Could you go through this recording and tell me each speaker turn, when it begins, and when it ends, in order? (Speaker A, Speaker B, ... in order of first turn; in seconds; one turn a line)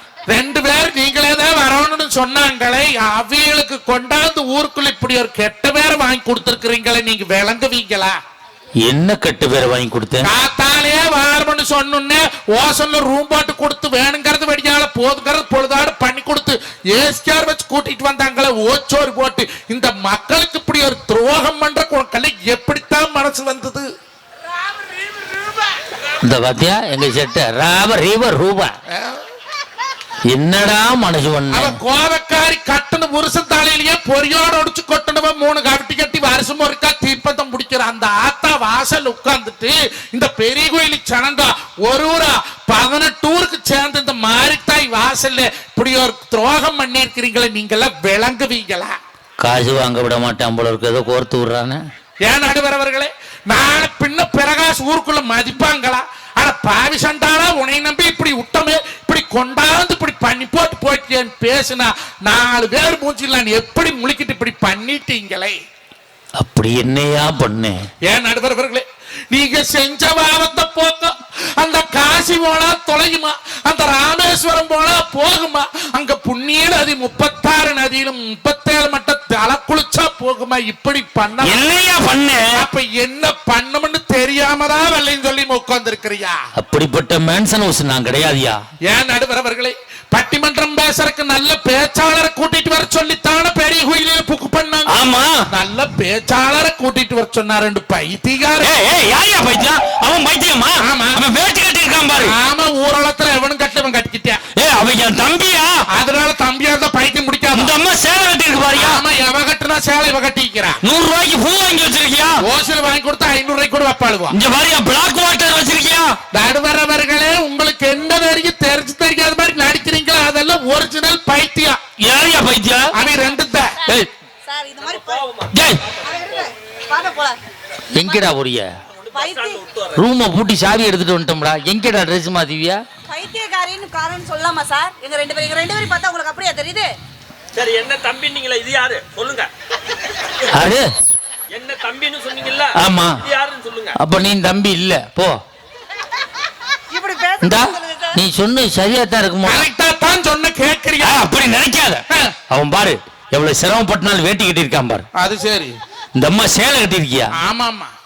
Speaker A: 0.3-8.2
Speaker B: 8.8-10.3
Speaker A: 10.2-23.9
Speaker B: 26.2-28.7
Speaker A: 28.9-29.2
Speaker B: 30.3-31.8
Speaker A: 31.5-48.9
Speaker B: 49.4-51.8
Speaker A: 52.3-65.6
Speaker B: 66.4-67.8
Speaker A: 68.1-81.6
Speaker B: 81.4-82.6
Speaker A: 82.5-86.4
Speaker B: 86.5-88.6
Speaker A: 88.9-98.8
Speaker B: 94.9-95.5
Speaker B: 98.6-102.3
Speaker A: 100.8-101.2
Speaker A: 102.2-104.4
Speaker B: 104.5-105.8
Speaker A: 105.9-107.8
Speaker B: 107.5-109.0
Speaker A: 108.7-110.8
Speaker B: 110.8-112.4
Speaker A: 112.4-114.3
Speaker B: 114.3-116.2
Speaker A: 116.3-121.8
Speaker B: 122.0-122.9
Speaker A: 122.9-123.8
Speaker C: 124.5-125.3
Speaker B: 125.5-125.8
Speaker C: 126.0-127.4
Speaker B: 127.9-128.7
Speaker C: 129.1-129.6
Speaker D: 129.2-129.9
Speaker B: 129.9-132.8
Speaker C: 133.1-136.9
Speaker D: 137.5-139.5
Speaker B: 140.5-140.9
Speaker D: 141.5-144.0
Speaker B: 142.8-143.2
Speaker B: 144.0-145.4
Speaker C: 146.9-148.2
Speaker B: 147.4-149.6
Speaker A: 149.4-151.2
Speaker B: 151.0-155.1
Speaker A: 155.2-155.8
Speaker B: 156.2-157.3
Speaker A: 157.4-157.9